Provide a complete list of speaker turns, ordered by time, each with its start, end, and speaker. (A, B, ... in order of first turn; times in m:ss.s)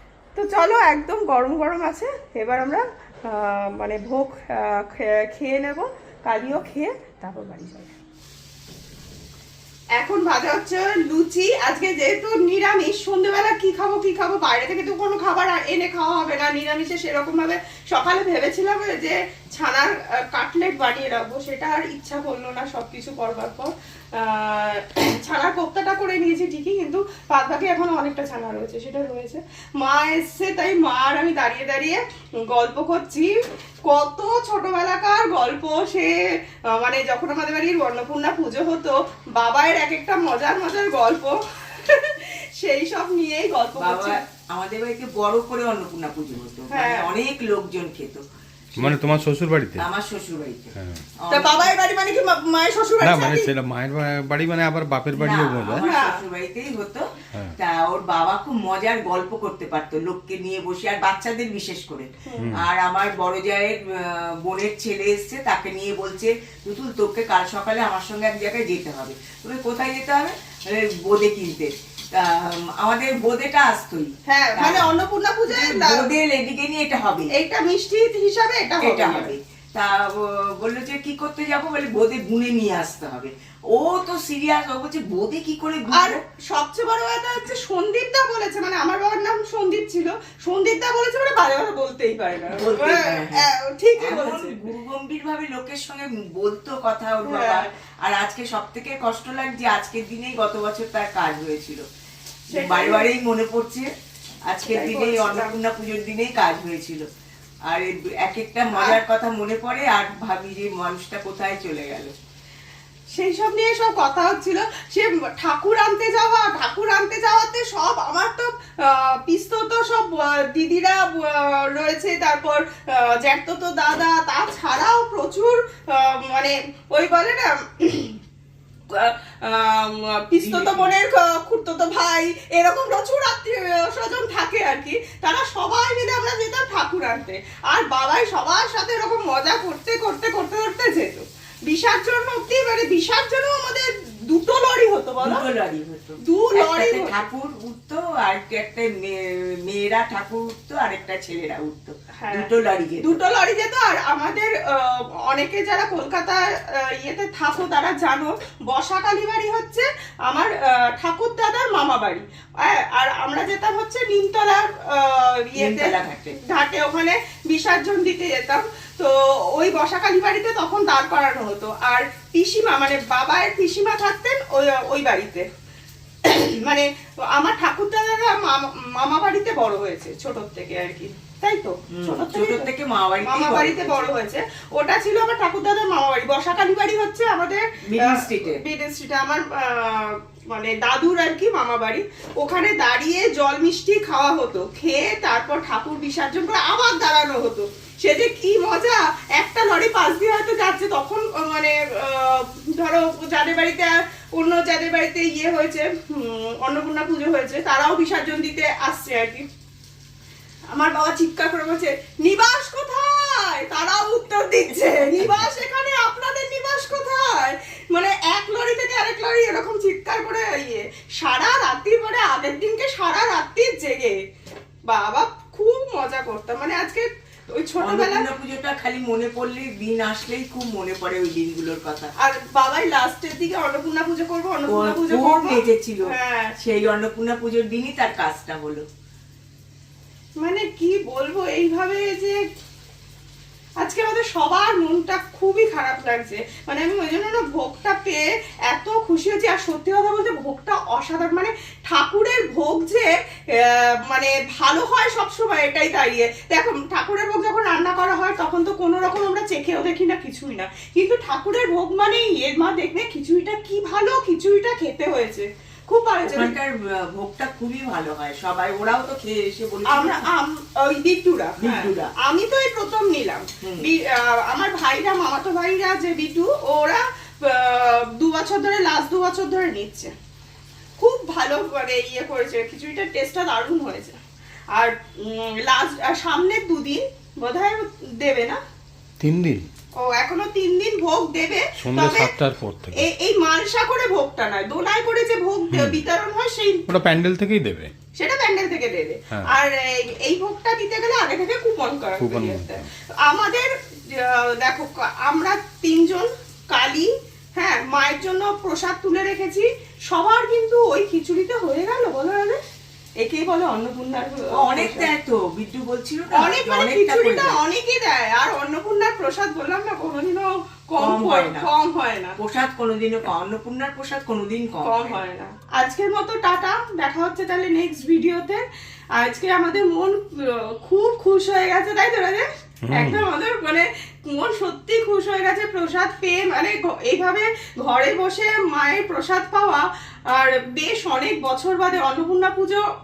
0:00.3-0:08.0 A
0:10.0-0:33.3 A
0:33.9-0:36.1 A
0:36.7-0:44.2 A
0:43.8-0:48.2 B
0:46.7-0:47.1 A
0:48.8-0:49.0 B
0:48.8-0:49.8 C
0:49.8-0:51.7 B
0:50.7-0:51.0 C
0:51.3-0:53.5 A
0:53.0-0:55.9 C
0:55.1-0:57.0 B
0:55.8-0:56.2 A
0:57.6-1:17.3 B
1:02.2-1:02.6 A
1:14.3-1:16.1 A
1:17.3-1:19.3 A
1:18.8-1:26.2 B
1:25.9-1:34.6 A
1:32.5-1:41.8 B
1:37.2-1:37.7 A
1:42.5-1:43.1 A
1:42.5-1:43.9 B
1:44.5-1:47.0 B
1:44.6-1:45.6 A
1:47.6-1:52.1 B
1:48.7-1:49.0 A
1:53.1-2:08.2 A
2:08.9-2:25.4 A
2:10.4-2:10.9 B
2:25.2-2:33.2 B
2:26.2-2:27.2 A
2:32.2-2:32.5 A
2:33.0-2:36.4 A
2:36.9-2:55.4 A
2:45.5-2:46.4 B
2:56.2-3:02.7 A
3:01.9-3:04.1 B
3:03.2-3:29.4 A
3:07.9-3:08.6 B
3:30.7-3:44.2 A
3:44.8-3:48.3 A
3:47.8-3:52.1 B
3:52.2-3:56.5 A
3:54.7-3:58.8 B
4:00.4-4:02.4 A
4:03.8-4:26.5 A
4:26.2-4:30.2 B
4:29.9-4:40.1 A
4:31.6-4:32.1 B
4:33.6-4:33.9 B
4:41.0-4:44.2 A
4:44.7-4:48.6 A
4:49.2-4:49.6 C
4:50.0-4:52.3 A
4:51.8-4:53.1 C
4:52.9-4:56.8 A
4:55.7-4:56.0 C
4:56.9-4:57.9 C
4:58.2-5:12.6 A
5:02.2-5:02.7 C
5:13.2-5:15.1 A
5:14.5-5:17.6 B
5:16.3-5:22.4 A
5:21.0-5:21.7 B
5:22.4-5:25.2 B
5:24.8-5:28.6 A
5:29.2-5:42.8 A
5:32.9-5:33.2 C